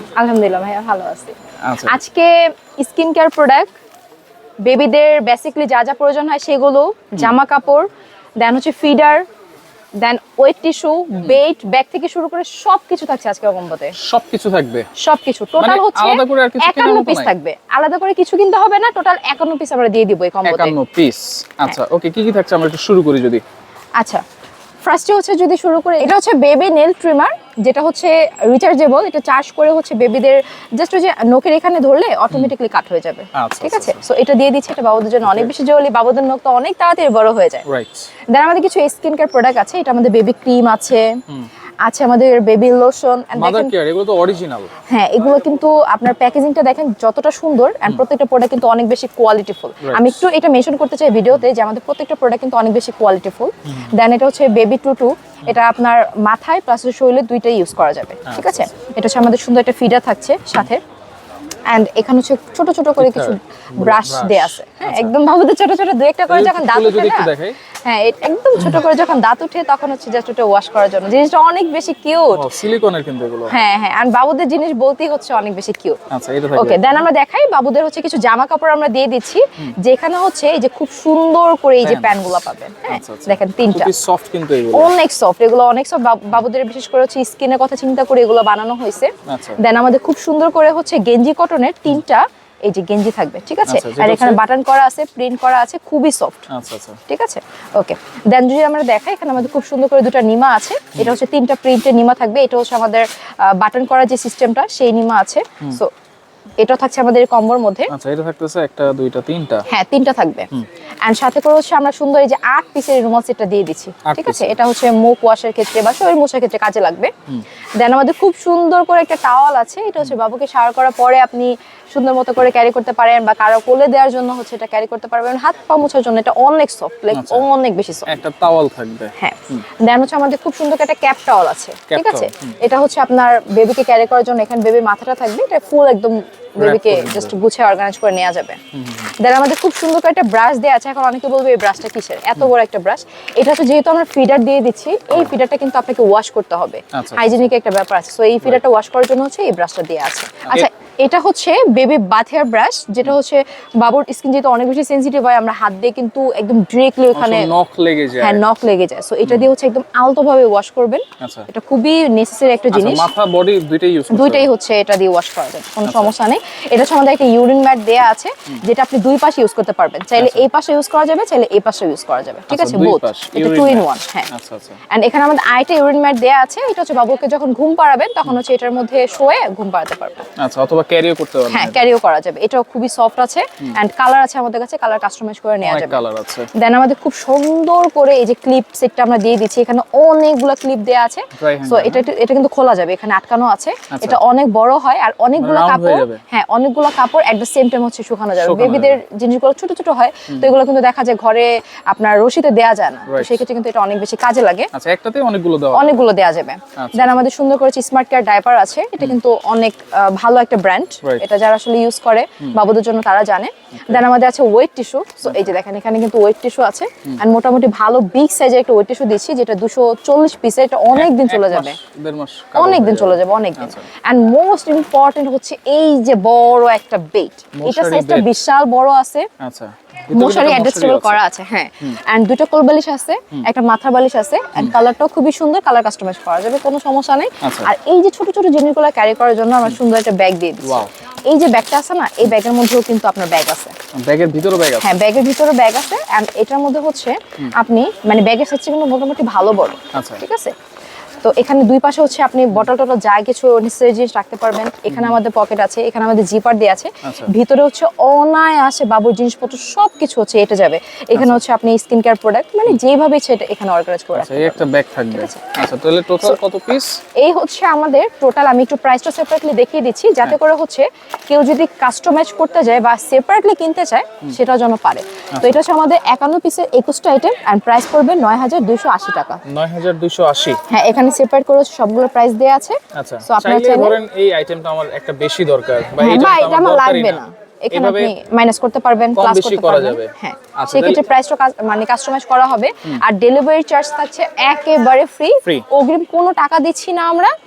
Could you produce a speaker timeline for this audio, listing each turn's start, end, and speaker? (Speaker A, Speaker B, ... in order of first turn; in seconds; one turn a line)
Speaker A: 0.2-1.3
Speaker B: 1.6-2.0
Speaker A: 1.9-3.7
Speaker A: 4.6-7.9
Speaker A: 8.4-9.2
Speaker A: 10.0-13.9
Speaker B: 14.0-14.9
Speaker A: 15.0-20.7
Speaker B: 15.6-17.3
Speaker B: 20.4-23.4
Speaker A: 24.0-24.2
Speaker A: 24.8-37.6
Speaker B: 33.4-34.0
Speaker B: 35.2-35.5
Speaker B: 37.6-38.1
Speaker A: 38.3-41.1
Speaker A: 41.8-43.7
Speaker B: 43.3-44.7
Speaker A: 44.9-60.8
Speaker B: 49.8-50.2
Speaker B: 58.2-58.7
Speaker A: 61.7-67.3
Speaker B: 63.0-65.2
Speaker B: 66.3-67.5
Speaker A: 67.8-72.5
Speaker B: 72.3-73.5
Speaker A: 73.5-76.0
Speaker B: 76.1-77.0
Speaker A: 76.5-83.9
Speaker B: 81.8-84.9
Speaker A: 84.7-96.4
Speaker B: 89.3-89.6
Speaker B: 93.7-94.4
Speaker B: 96.5-97.0
Speaker A: 97.1-105.9
Speaker A: 106.6-107.9
Speaker B: 107.9-109.6
Speaker A: 109.7-110.5
Speaker A: 111.0-117.1
Speaker B: 114.0-114.6
Speaker A: 117.8-128.2
Speaker B: 127.1-127.5
Speaker B: 128.1-129.6
Speaker A: 129.2-138.6
Speaker B: 131.9-132.5
Speaker B: 136.6-137.3
Speaker B: 138.7-139.1
Speaker A: 139.2-157.5
Speaker B: 146.9-147.5
Speaker B: 157.1-158.4
Speaker A: 158.2-163.1
Speaker B: 161.2-161.5
Speaker B: 162.7-164.5
Speaker A: 164.1-174.3
Speaker B: 165.8-166.1
Speaker B: 170.1-170.4
Speaker B: 172.5-174.8
Speaker A: 174.9-180.2
Speaker B: 180.4-181.8
Speaker A: 181.5-186.0
Speaker B: 185.6-186.5
Speaker A: 186.5-204.7
Speaker B: 191.4-192.0
Speaker B: 193.9-194.2
Speaker B: 195.3-196.2
Speaker B: 198.4-199.0
Speaker B: 203.1-203.4
Speaker B: 204.7-206.0
Speaker A: 205.7-221.8
Speaker B: 206.8-207.2
Speaker B: 213.7-214.0
Speaker B: 215.2-215.5
Speaker B: 220.9-223.9
Speaker A: 222.5-229.3
Speaker B: 227.6-228.3
Speaker B: 229.4-231.2
Speaker A: 230.1-243.7
Speaker B: 237.4-237.7
Speaker B: 240.6-240.9
Speaker B: 243.9-244.9
Speaker A: 244.8-250.5
Speaker B: 249.9-250.2
Speaker A: 251.2-265.5
Speaker B: 254.9-255.2
Speaker B: 257.0-257.3
Speaker B: 261.1-261.4
Speaker B: 264.1-267.0
Speaker A: 267.1-279.4
Speaker B: 275.3-275.6
Speaker B: 279.5-280.6
Speaker A: 280.7-284.0
Speaker B: 282.9-288.1
Speaker A: 286.0-297.3
Speaker B: 289.1-291.0